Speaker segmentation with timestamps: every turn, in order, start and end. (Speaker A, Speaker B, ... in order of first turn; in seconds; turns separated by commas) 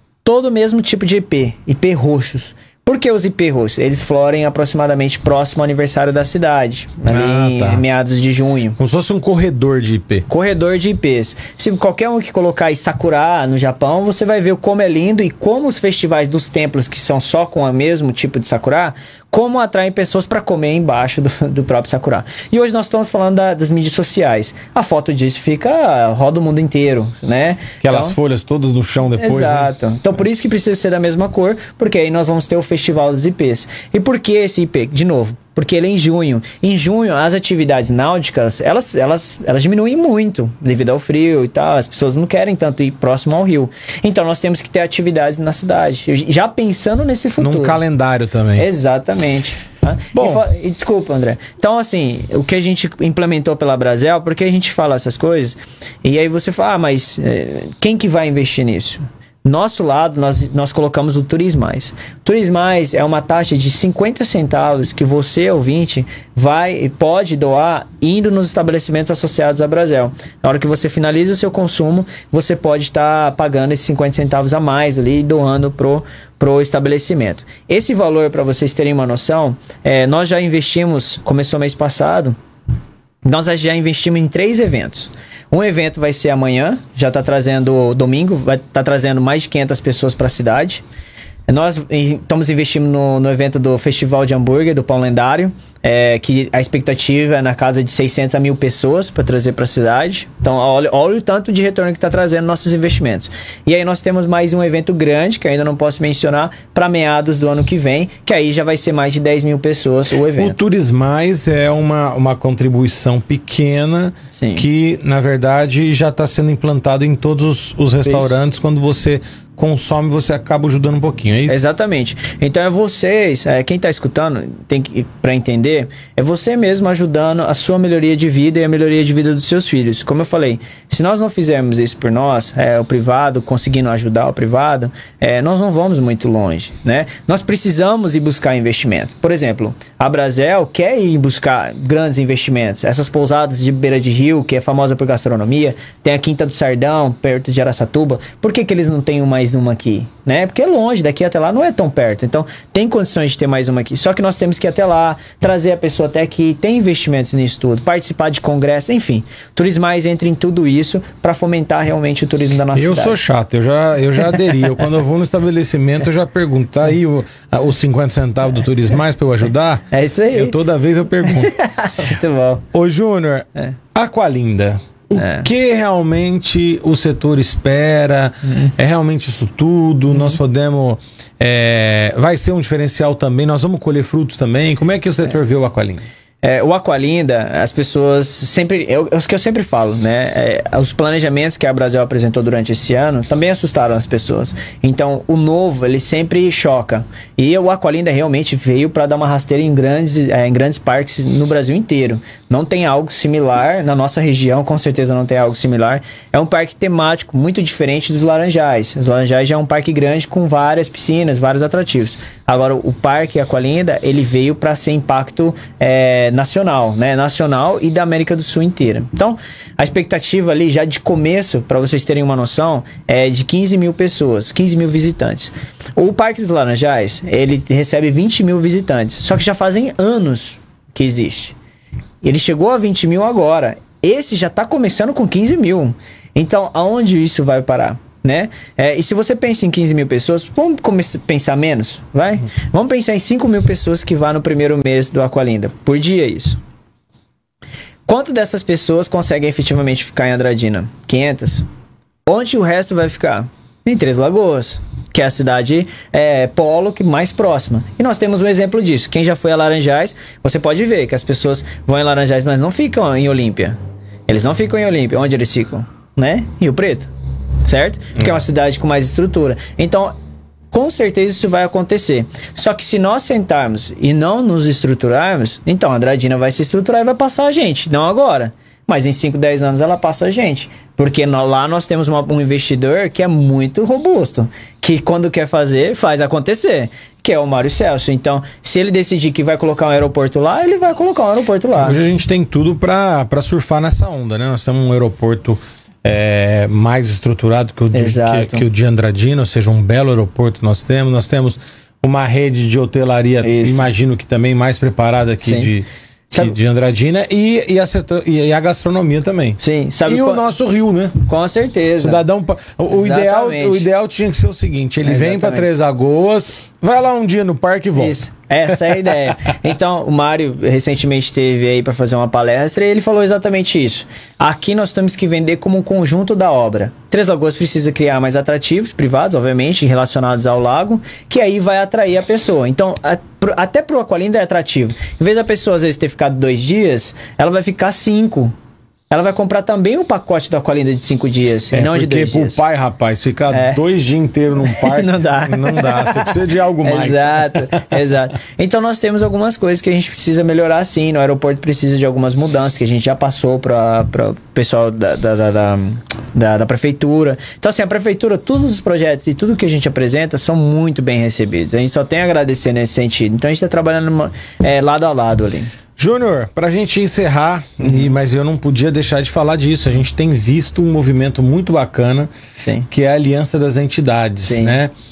Speaker A: 0.2-8.8, Speaker B: 7.1-7.8, Speaker B: 8.8-10.3, Speaker A: 10.3-28.2, Speaker B: 27.8-29.7, Speaker A: 29.2-47.8, Speaker B: 47.4-48.7, Speaker A: 48.6-82.4, Speaker B: 50.1-50.4, Speaker A: 83.2-90.8, Speaker A: 91.5-110.6, Speaker B: 110.4-121.6, Speaker A: 114.3-114.7, Speaker A: 118.0-118.3, Speaker A: 121.5-163.2, Speaker B: 162.7-171.6, Speaker A: 169.9-170.6, Speaker A: 171.3-172.7, Speaker B: 172.7-186.1, Speaker A: 175.2-175.5, Speaker A: 178.5-178.7, Speaker A: 180.1-180.4, Speaker A: 186.4-231.6, Speaker A: 232.2-246.6, Speaker A: 248.1-251.7, Speaker A: 252.3-263.8, Speaker A: 264.3-267.1, Speaker A: 267.6-270.1, Speaker A: 270.7-292.0, Speaker B: 291.8-311.3, Speaker A: 297.9-298.7, Speaker A: 303.4-303.9, Speaker A: 305.4-305.7, Speaker A: 306.3-306.6, Speaker A: 309.6-310.4, Speaker A: 311.3-312.2, Speaker B: 312.0-318.2, Speaker A: 312.9-313.9, Speaker A: 315.0-315.7, Speaker A: 318.0-338.5, Speaker A: 339.1-342.6, Speaker B: 341.7-348.1, Speaker A: 343.5-343.8, Speaker A: 344.7-365.7, Speaker B: 366.0-372.3, Speaker A: 367.8-368.1, Speaker A: 372.6-372.9, Speaker B: 372.9-374.9, Speaker A: 374.5-374.8